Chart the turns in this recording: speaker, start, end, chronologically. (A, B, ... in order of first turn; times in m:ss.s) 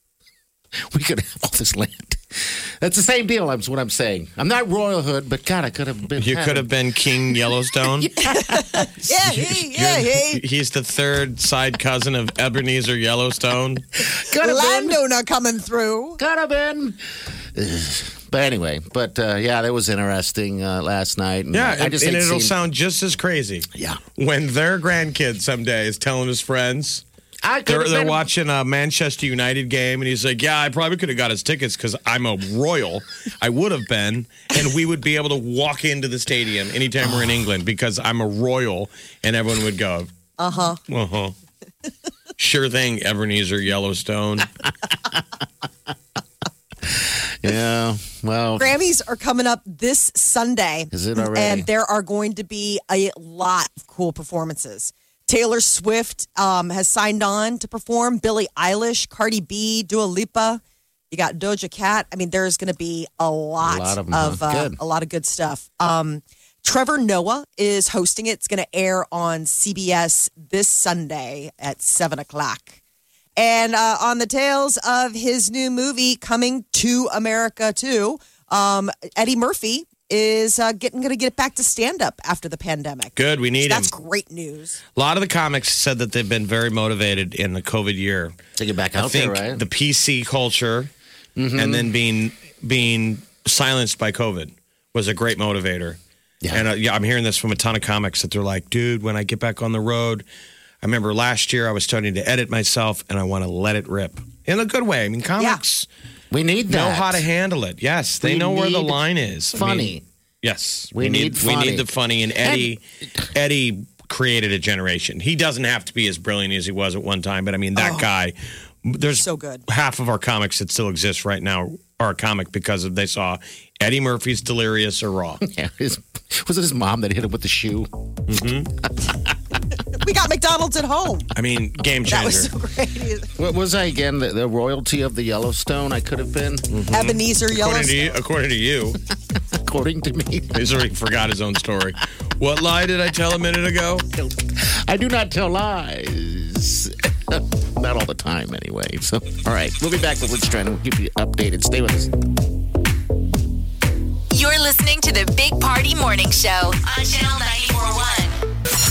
0:00.9-0:06.7 A
0:06.2-0:08.1 B
0:07.5-0:08.9 A
0:08.2-0:10.4 C
0:09.0-0:13.8 B
0:14.1-0:15.0 A
0:14.3-0:16.2 C
0:16.2-0:17.0 A
0:17.5-0:22.5 A
0:21.5-0:27.0 B
0:23.7-0:24.0 A
0:27.4-0:28.2 A
0:27.7-0:40.1 B
0:37.0-0:37.4 A
0:40.4-0:40.8 C
0:40.9-0:41.3 B
0:42.4-0:44.5 B
0:46.9-0:48.7 A
0:48.6-1:12.8 C
0:50.9-0:51.7 A
1:03.6-1:04.8 A
1:13.4-1:24.8 C
1:23.2-1:23.9 B
1:25.0-1:28.4 B
1:28.6-1:29.6 A
1:29.0-1:30.9 B
1:31.4-1:31.9 A
1:31.5-1:36.0 B
1:36.5-1:40.2 B
1:40.8-1:45.9 B
1:46.3-1:47.2 A
1:46.7-2:05.4 B
1:48.2-1:49.0 A
1:49.5-1:50.0 A
1:50.9-1:52.8 A
1:57.7-1:58.1 C
1:59.1-1:59.6 C
2:05.4-2:07.9 A
2:08.3-2:08.7 B
2:10.0-2:11.3 C
2:11.3-2:12.5 B
2:12.0-2:13.3 C
2:13.4-2:16.7 A
2:16.7-2:19.0 B
2:16.9-2:18.2 C
2:19.3-2:20.6 A
2:20.5-2:24.1 B
2:24.8-2:32.1 A
2:34.3-2:38.3 D